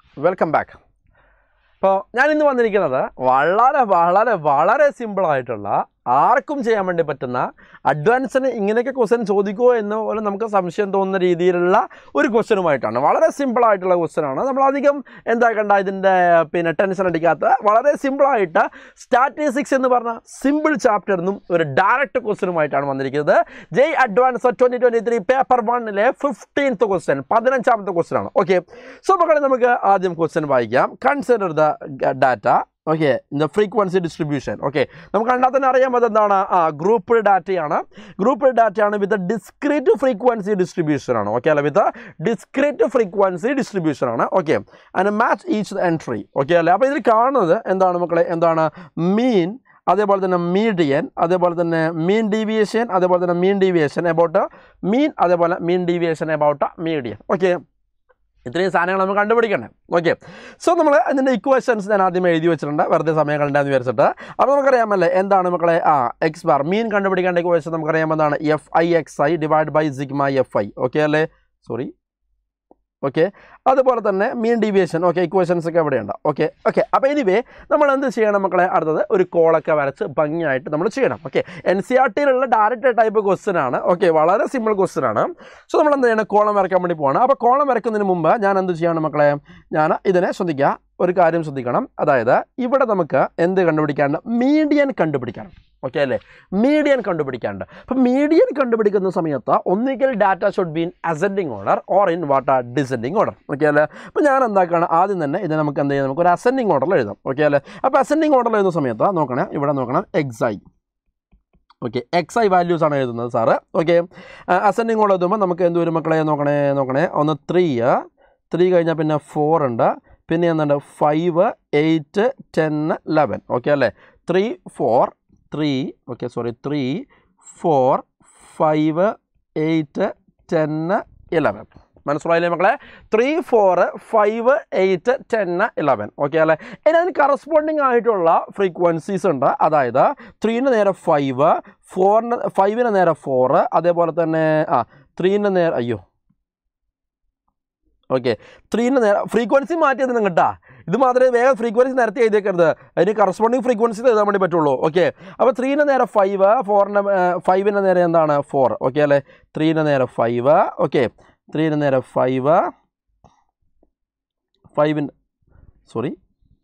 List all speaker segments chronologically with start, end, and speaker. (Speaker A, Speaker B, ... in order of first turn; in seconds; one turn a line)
Speaker A: 0.2-0.8
Speaker A: 1.8-57.6
Speaker A: 58.5-71.9
Speaker A: 73.0-110.6
Speaker A: 111.8-146.0
Speaker A: 148.1-162.6
Speaker A: 164.7-165.1
Speaker A: 165.9-166.1